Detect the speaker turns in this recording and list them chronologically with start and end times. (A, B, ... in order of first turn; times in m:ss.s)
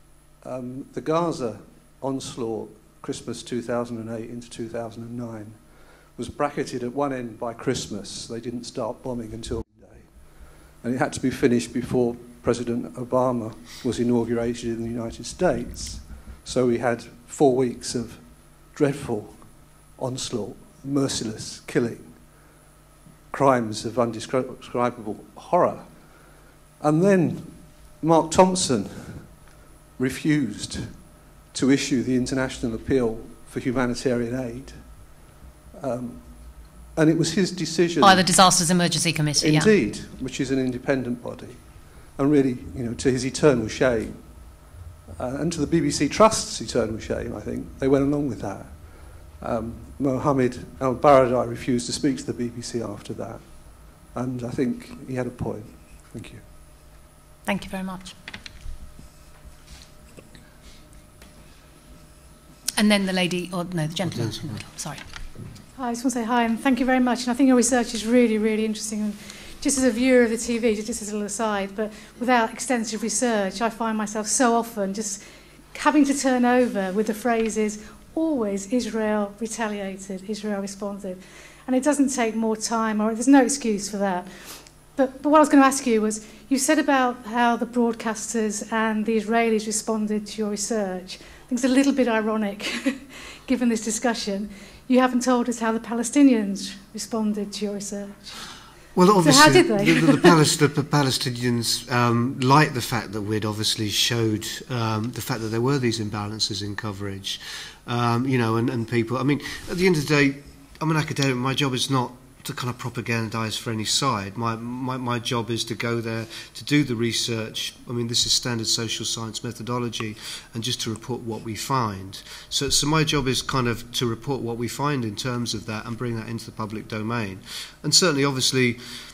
0:00.4-0:22.6 A
0:23.3-0:38.3 A
0:38.0-0:39.7 B
0:39.4-0:56.4 A
0:57.5-0:58.2 B
1:02.8-1:05.0 B
1:04.1-1:04.6 C
1:05.8-1:38.5 D
1:39.0-2:08.8 C
1:39.2-1:40.4 D